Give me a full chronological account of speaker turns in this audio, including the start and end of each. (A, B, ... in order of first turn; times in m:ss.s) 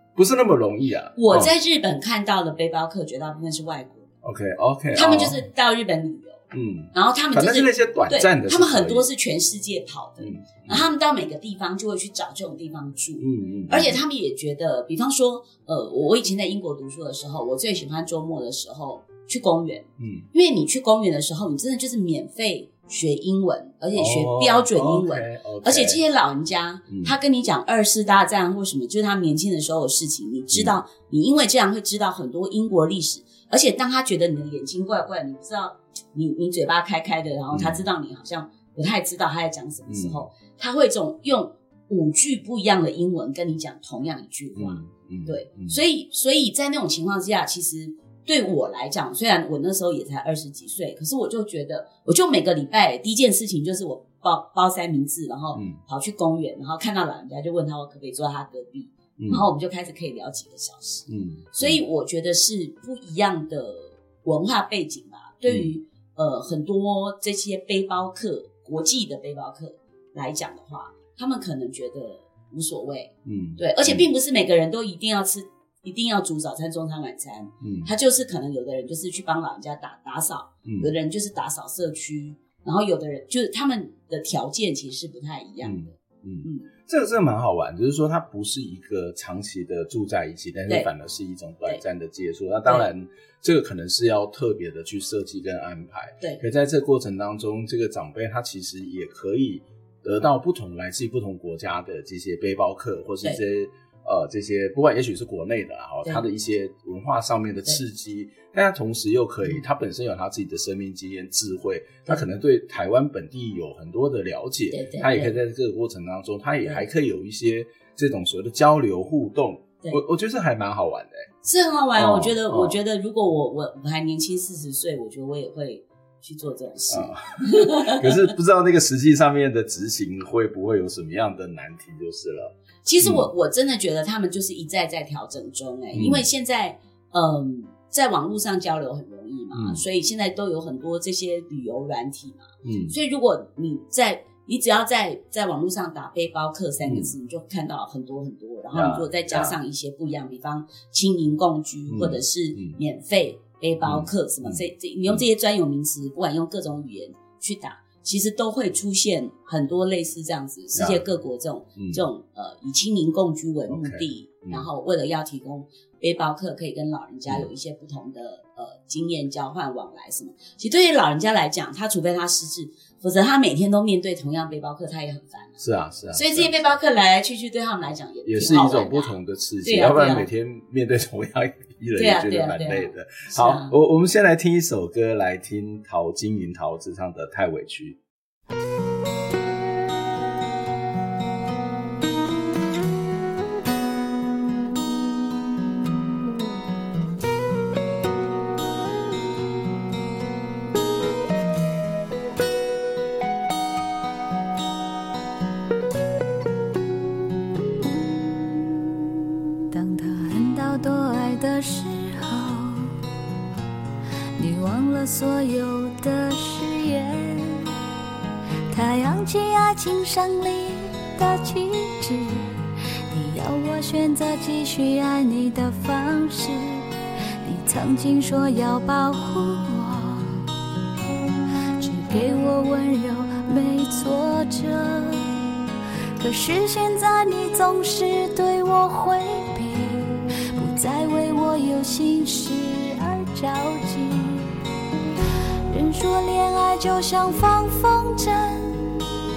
0:00.2-0:01.5 A
0:01.2-0:04.1 B
0:04.2-0:05.4 A
0:04.9-1:26.7 B
0:06.5-0:09.0 A
0:10.2-0:10.8 A
0:13.2-0:14.0 A
0:20.0-0:20.2 A
0:23.9-0:26.0 A
0:37.5-0:37.8 A
0:39.9-0:40.2 A
0:44.5-0:45.7 A
0:59.2-0:59.4 A
1:01.1-1:01.8 A
1:13.2-1:14.0 A
1:17.6-1:17.9 A
1:20.6-1:20.9 A
1:25.6-2:01.2 A
1:54.7-1:55.3 B
2:01.4-2:08.1 B
2:02.0-2:02.8 A
2:06.9-2:13.3 A
2:12.8-2:55.6 B
2:15.9-2:16.2 A
2:19.5-2:19.8 A
2:22.6-2:22.9 A
2:26.9-2:27.1 A
2:28.7-2:29.6 A
2:31.9-2:32.8 A
2:33.8-2:35.2 A
2:43.7-2:44.7 A
2:55.6-2:56.5 A
2:56.1-3:00.3 B
2:58.2-3:08.0 A
3:02.0-3:03.7 B
3:29.7-3:32.9 C
3:34.4-3:37.7 C
3:38.7-3:42.4 C
3:43.1-3:46.8 C
3:47.4-3:50.3 C
3:51.8-3:55.3 C
3:56.2-4:04.5 C
4:05.7-4:09.0 C